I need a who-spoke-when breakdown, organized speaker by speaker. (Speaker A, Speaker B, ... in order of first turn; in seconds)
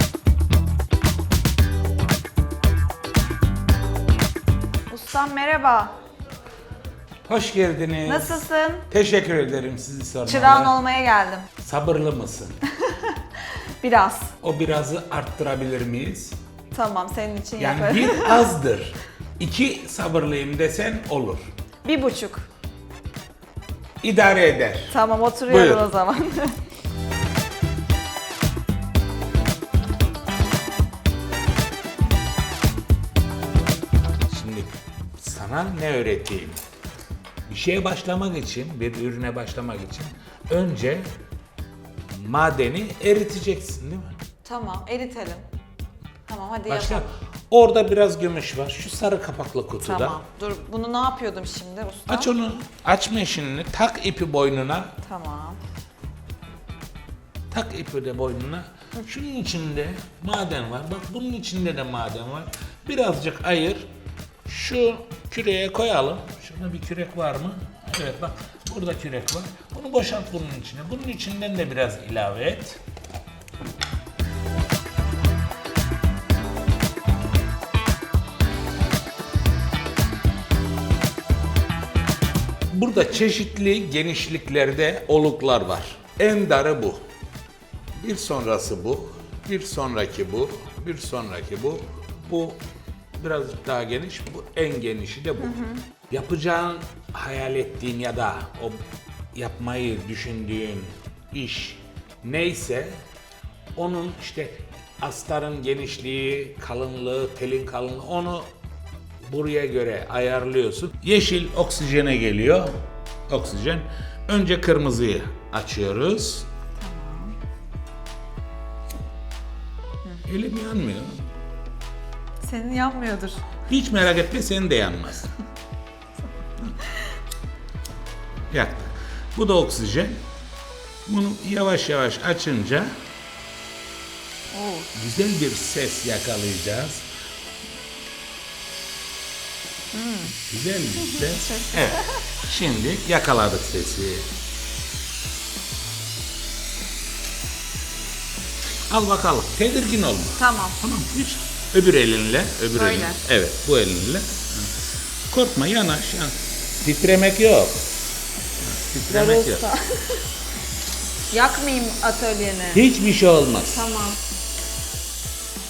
Speaker A: 4.9-5.9, 8.1-8.9, 10.3-11.5, 12.8-13.2, 13.8-14.3, 16.7-18.5, 21.8-22.5, 24.9-26.6, 44.4-45.4, 46.3-47.1, 49.8-52.3, 55.0-55.6, 95.4-95.8, 116.8-117.4, 122.4-123.5, 126.8-127.1, 134.5-134.9, 139.9-140.4, 141.0-142.4, 150.4-150.8, 152.7-153.2, 159.1-160.2, 161.3-162.8, 163.7-164.2
Speaker B: 7.3-10.8, 11.6-12.6, 14.4-16.4, 17.6-21.4, 24.0-25.0, 25.5-25.8, 34.3-36.6, 37.5-41.0, 42.1-44.1, 46.7-50.2, 52.1-55.0, 57.5-63.9, 64.5-72.8, 82.7-87.0, 88.0-92.6, 93.2-95.6, 96.1-98.8, 99.3-103.0, 103.8-108.5, 109.2-112.7, 113.3-116.5, 120.3-121.3, 123.7-125.3, 128.5-130.2, 131.1-132.9, 134.9-137.1, 140.4-144.3, 148.9-154.7, 155.3-157.9, 158.6-159.7, 162.7-163.9